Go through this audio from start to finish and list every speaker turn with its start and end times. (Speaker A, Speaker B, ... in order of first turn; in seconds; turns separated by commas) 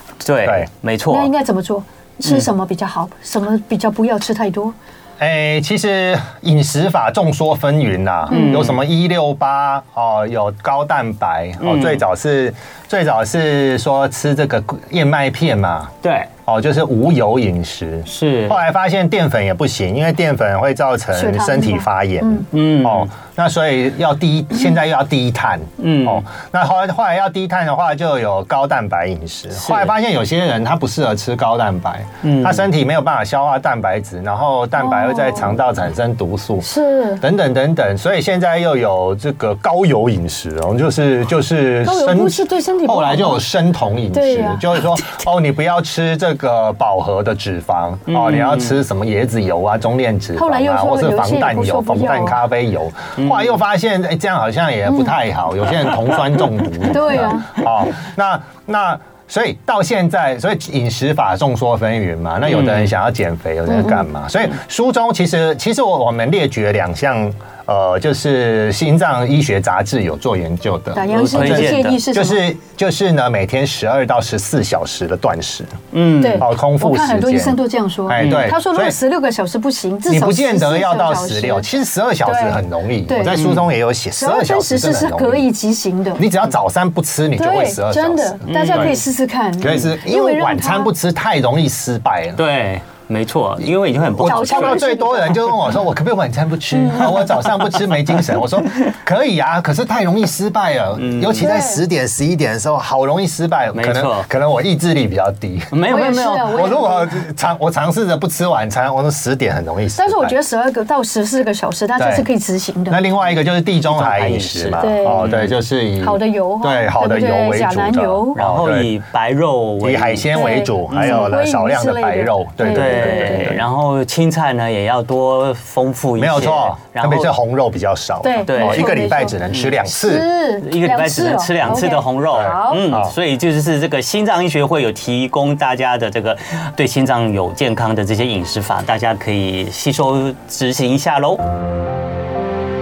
Speaker A: 0.2-1.3, Speaker B: 1.1-4.7, Speaker C: 5.2-15.9, Speaker B: 8.3-8.7, Speaker A: 8.3-8.8, Speaker A: 11.6-12.0, Speaker A: 16.0-16.3, Speaker C: 16.4-36.7, Speaker A: 18.1-18.6, Speaker B: 21.1-22.4, Speaker A: 22.5-23.1, Speaker A: 25.8-26.2, Speaker A: 29.6-29.9, Speaker A: 32.2-32.6, Speaker B: 34.8-35.6, Speaker B: 36.6-37.2, Speaker C: 37.2-75.8, Speaker B: 41.8-43.4, Speaker B: 44.1-45.0, Speaker A: 48.1-48.8, Speaker B: 50.4-52.4, Speaker A: 53.2-53.5, Speaker B: 56.9-57.5, Speaker A: 62.5-62.9, Speaker B: 63.7-64.0, Speaker B: 70.9-72.4, Speaker A: 71.1-71.9, Speaker A: 75.9-76.5, Speaker B: 76.2-81.7, Speaker C: 76.4-79.0, Speaker A: 78.2-78.5, Speaker C: 80.1-85.5, Speaker B: 82.2-83.5, Speaker A: 83.3-83.6, Speaker B: 84.2-86.2, Speaker C: 86.2-88.9, Speaker B: 87.4-90.9, Speaker A: 88.5-89.0, Speaker C: 89.6-92.4, Speaker A: 92.4-94.8, Speaker C: 94.1-105.7, Speaker B: 94.2-95.6, Speaker A: 97.0-97.5, Speaker A: 98.2-98.9, Speaker A: 101.0-101.5, Speaker B: 101.4-101.8, Speaker A: 103.7-104.3, Speaker A: 105.7-106.7, Speaker B: 105.9-107.2, Speaker C: 106.5-110.4, Speaker B: 110.0-113.0, Speaker C: 112.0-112.3, Speaker C: 112.9-118.9, Speaker A: 113.9-115.5, Speaker B: 114.8-115.3, Speaker B: 116.0-118.4, Speaker A: 118.3-121.3, Speaker C: 119.8-123.6, Speaker B: 120.3-123.6, Speaker A: 122.7-127.3, Speaker C: 126.2-130.3, Speaker B: 128.2-129.4, Speaker A: 128.5-129.8, Speaker B: 129.9-132.8, Speaker A: 130.6-141.4, Speaker C: 132.3-133.1